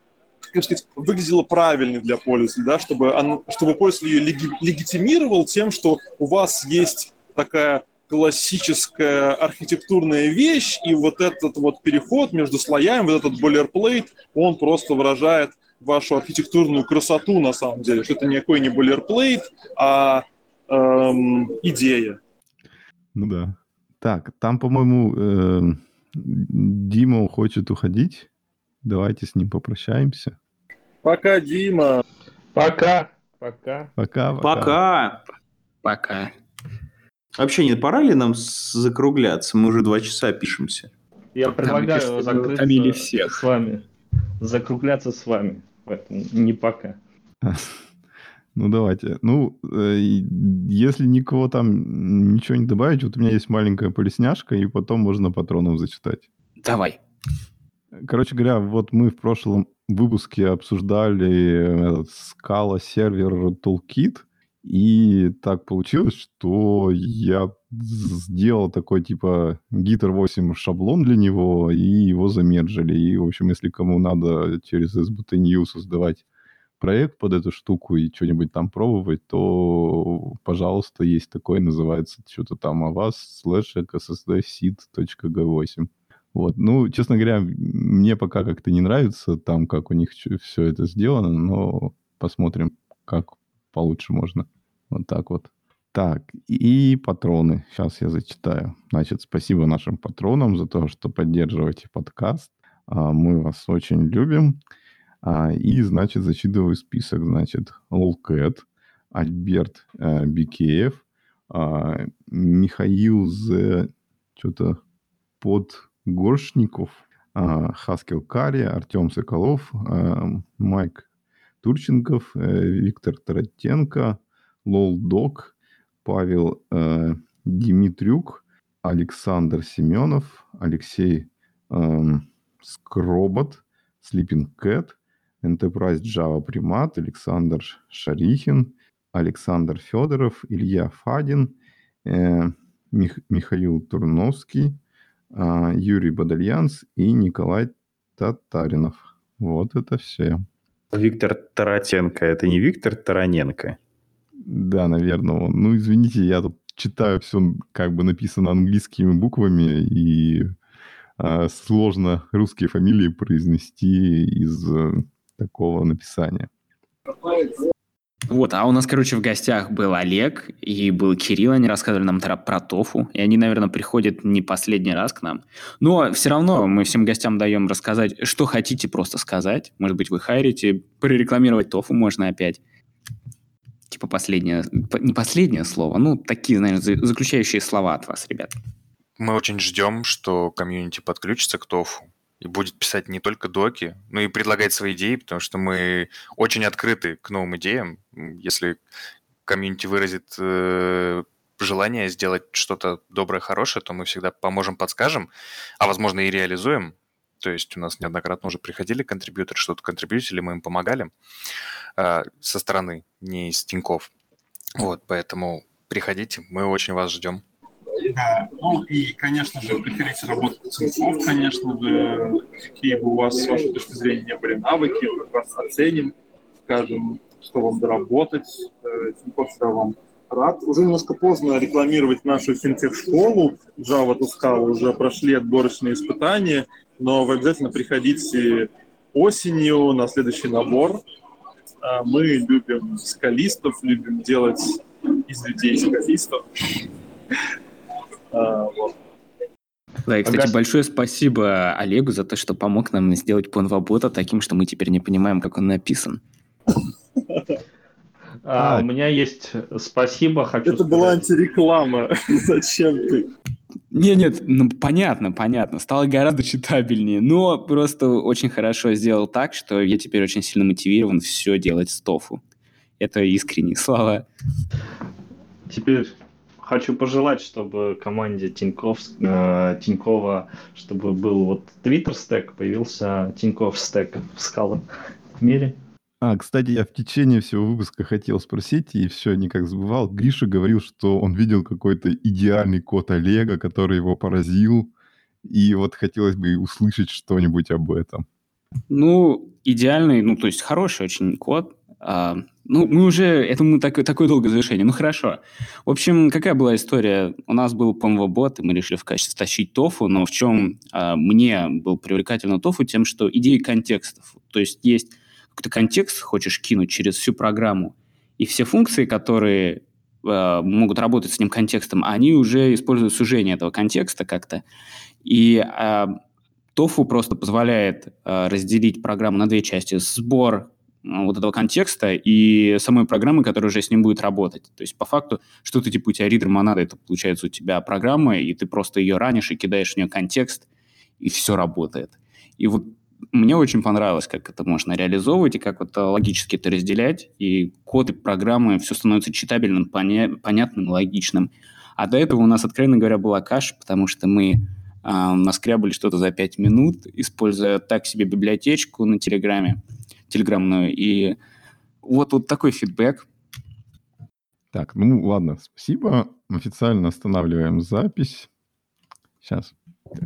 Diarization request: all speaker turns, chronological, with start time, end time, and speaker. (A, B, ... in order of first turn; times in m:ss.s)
0:00.5-0:22.2 A
0:23.1-0:28.3 B
0:28.8-0:30.4 B
0:31.0-0:32.0 A
0:32.5-0:33.9 C
0:34.0-0:34.8 B
0:34.4-0:35.2 D
0:35.8-0:36.3 E
0:37.4-0:40.9 D
0:41.3-0:43.8 C
0:41.6-0:43.4 E
0:44.4-0:47.0 C
0:47.4-0:47.7 B
0:48.5-0:56.2 B
0:56.6-0:57.0 E
0:57.9-1:16.2 B
1:16.8-1:44.6 B
1:45.2-1:54.8 B
1:55.4-2:01.0 B
2:01.6-2:05.5 B
2:06.0-2:24.8 B
2:25.3-2:30.4 B
2:30.9-2:33.8 D
2:34.4-2:40.5 B
2:41.2-2:46.5 B
2:48.3-3:02.6 E
3:03.9-3:08.5 E
3:09.2-3:18.8 F
3:19.4-3:31.1 F
3:32.0-3:34.1 F
3:34.8-3:37.4 F
3:38.0-3:46.1 A
3:46.6-4:01.0 A
4:01.8-4:06.7 A
4:08.3-4:09.0 A
4:10.1-4:16.2 E
4:10.2-4:10.5 C
4:18.4-4:21.2 C
4:18.6-4:18.9 B
4:20.6-4:23.3 A
4:23.9-4:32.4 E
4:33.0-4:34.3 E
4:35.7-4:44.8 C
4:45.4-4:45.8 C
4:46.2-4:54.9 B
4:55.4-4:58.2 B
4:58.9-5:24.6 E
5:25.2-5:26.2 E
5:26.7-5:40.6 E
5:41.2-6:01.4 E
6:02.0-6:03.3 E
6:04.7-6:08.5 B
6:09.4-6:09.8 B